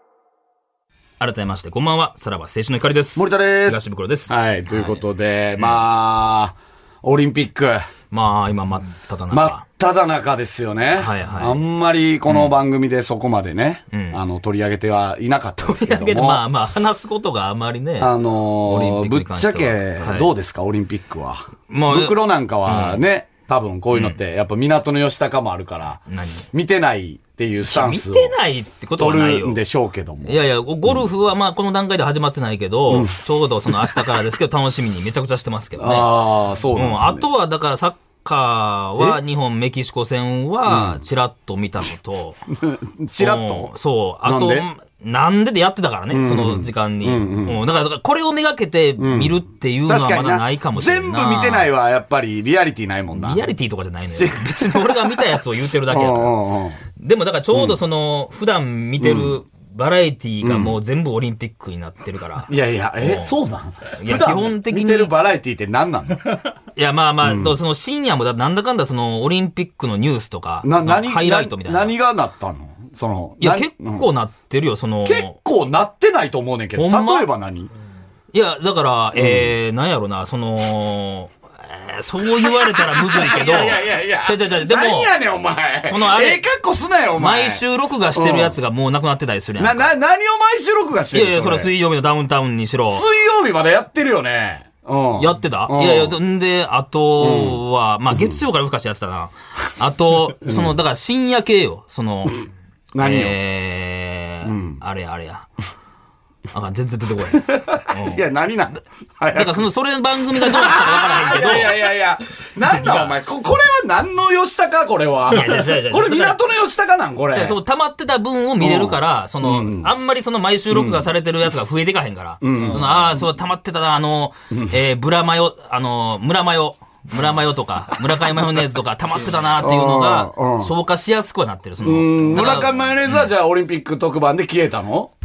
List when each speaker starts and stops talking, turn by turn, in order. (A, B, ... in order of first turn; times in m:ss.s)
0:01.2-0:05.0 A
0:03.1-0:07.9 B
0:08.1-0:09.6 A
0:09.3-0:16.4 B
0:11.0-0:11.6 A
0:12.3-0:12.5 A
0:13.9-0:14.2 A
0:15.6-0:20.3 A
0:18.0-0:28.4 B
0:21.7-0:23.0 A
0:23.9-0:24.2 A
0:26.1-0:26.5 A
0:27.6-0:29.6 A
0:29.0-0:31.0 B
0:30.2-0:42.4 A
0:32.9-0:33.2 B
0:35.8-0:37.2 B
0:40.7-0:41.0 B
0:42.5-0:43.7 B
0:43.2-0:51.7 A
0:44.2-0:44.6 B
0:46.1-0:47.6 B
0:49.0-0:53.4 B
0:53.1-1:03.4 A
0:54.1-0:55.0 B
0:55.9-0:56.8 B
0:59.0-0:59.4 B
1:00.4-1:00.7 B
1:02.5-1:06.4 B
1:03.9-1:05.1 A
1:06.8-1:11.9 A
1:07.2-1:07.6 B
1:10.6-1:14.1 B
1:13.4-1:15.4 A
1:15.0-1:17.7 B
1:16.7-1:17.3 A
1:18.3-1:25.1 A
1:19.1-1:19.5 B
1:22.4-1:28.6 B
1:25.8-1:26.4 A
1:27.1-1:29.9 A
1:29.6-1:31.7 B
1:31.1-1:33.0 A
1:32.9-1:36.2 B
1:35.2-1:42.4 A
1:37.2-1:38.4 B
1:40.4-1:40.7 B
1:42.9-1:43.4 B
1:43.0-1:45.5 A
1:44.4-1:44.8 B
1:46.5-1:48.2 A
1:47.3-1:49.7 B
1:49.3-1:51.9 A
1:50.3-1:57.6 B
1:52.7-1:53.1 A
1:55.3-1:56.4 A
1:57.3-2:13.3 A
1:58.6-1:59.9 B
2:00.7-2:01.1 B
2:02.4-2:03.2 B
2:09.6-2:10.7 B
2:11.8-2:15.1 B